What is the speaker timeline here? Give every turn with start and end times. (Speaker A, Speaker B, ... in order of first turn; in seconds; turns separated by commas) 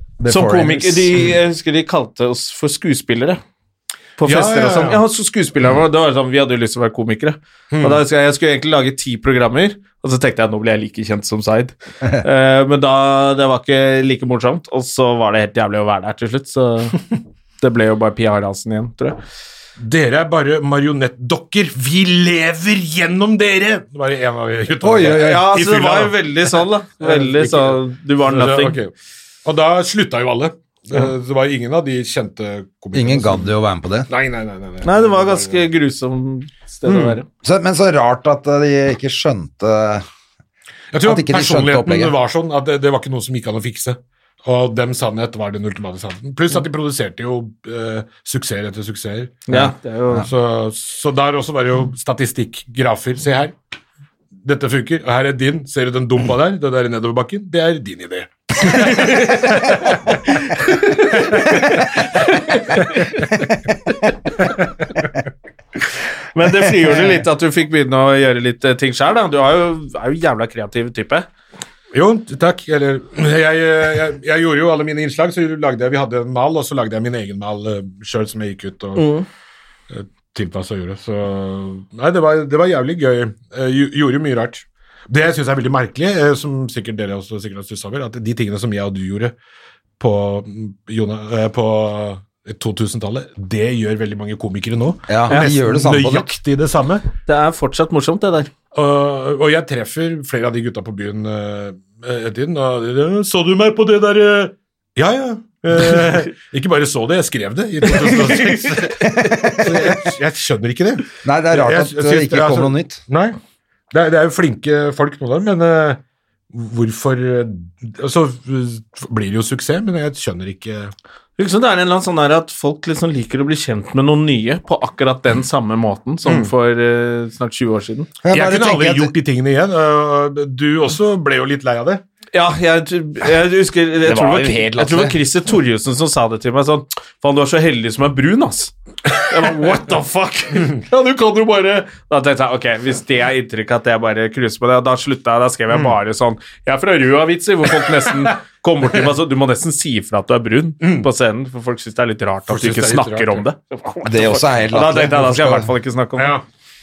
Speaker A: 0.2-1.1, Speaker B: 0.2-3.4, Speaker B: 4.2-17.0, Speaker C: 4.2-5.0, Speaker C: 7.7-8.0, Speaker B: 17.6-19.2, Speaker C: 19.8-28.9, Speaker A: 24.8-25.5, Speaker B: 25.0-28.8, Speaker C: 29.4-33.5, Speaker A: 32.9-34.1, Speaker C: 34.1-35.6, Speaker B: 34.8-37.2, Speaker C: 36.8-37.2, Speaker A: 37.4-40.0, Speaker C: 40.9-53.5, Speaker A: 41.0-42.1, Speaker B: 49.5-50.3, Speaker A: 49.5-50.3, Speaker C: 54.4-63.5, Speaker B: 58.7-59.9, Speaker B: 60.6-63.2, Speaker C: 64.4-65.1, Speaker B: 66.3-71.3, Speaker C: 71.9-79.1, Speaker B: 79.0-79.3, Speaker C: 79.9-89.3, Speaker C: 90.0-97.0, Speaker A: 95.1-96.3, Speaker B: 97.2-98.5, Speaker C: 98.7-113.4, Speaker B: 108.0-109.1, Speaker A: 111.2-113.0, Speaker C: 113.9-116.0, Speaker C: 116.5-120.9, Speaker B: 121.4-128.1, Speaker C: 126.2-126.5, Speaker A: 128.2-129.1, Speaker C: 128.3-132.0, Speaker B: 132.3-138.7, Speaker A: 134.1-135.1, Speaker C: 139.1-139.6, Speaker B: 139.2-156.3, Speaker C: 140.5-141.7, Speaker C: 147.7-149.1, Speaker C: 150.8-151.1, Speaker C: 152.5-153.4, Speaker A: 154.0-155.7, Speaker C: 156.2-156.4